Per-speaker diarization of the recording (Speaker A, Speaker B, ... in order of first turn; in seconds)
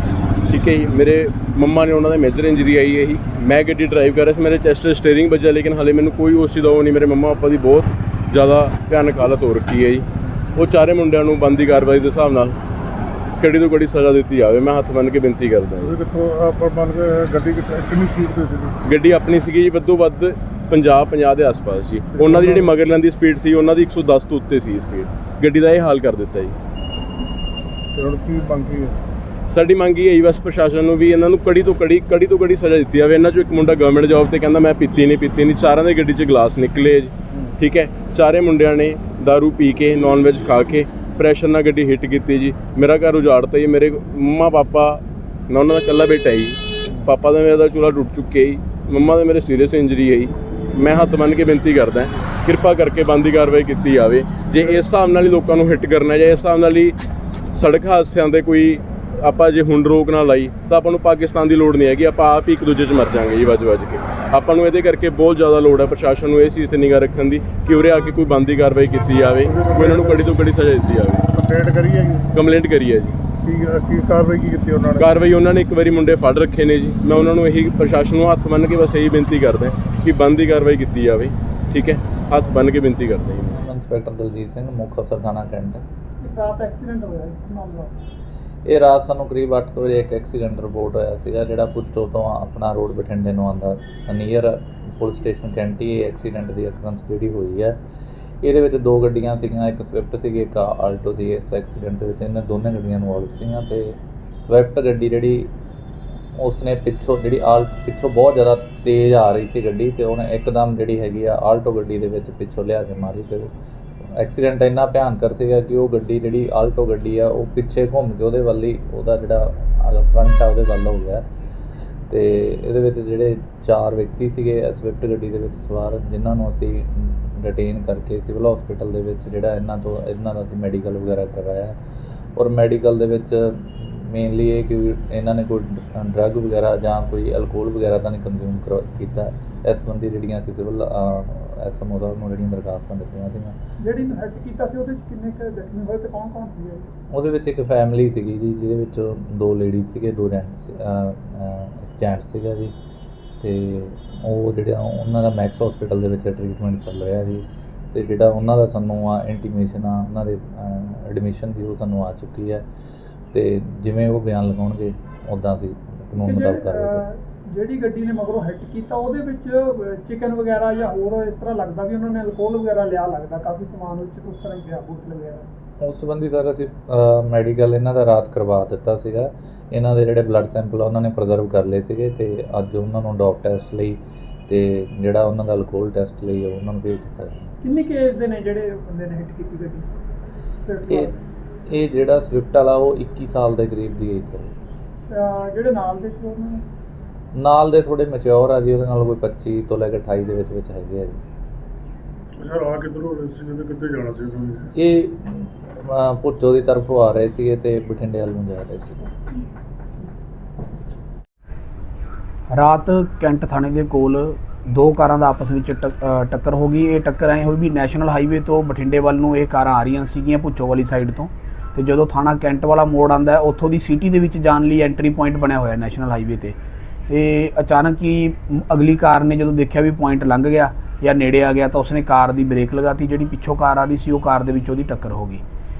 Speaker A: 0.4-12.6, 13.4-16.0, 18.9-26.6, 29.5-57.0, 57.5-71.3, 72.3-73.2, 75.0-83.6
Speaker B: 15.8-18.8, 22.1-22.7, 27.9-29.0, 69.4-70.4, 71.3-72.3, 73.4-75.1, 202.4-204.7
Speaker C: 83.5-85.8, 88.7-97.8, 98.4-105.5, 106.3-113.5, 114.1-121.3, 122.1-131.8, 132.4-143.6, 147.1-152.7, 153.4-162.7, 163.3-167.0, 175.8-187.5, 191.7-194.5, 197.3-201.2, 204.8-209.1
Speaker D: 86.2-88.0, 143.8-146.9, 166.2-175.5, 187.6-189.9, 190.6-191.2, 195.1-196.6
Speaker E: 212.5-226.6, 227.1-235.4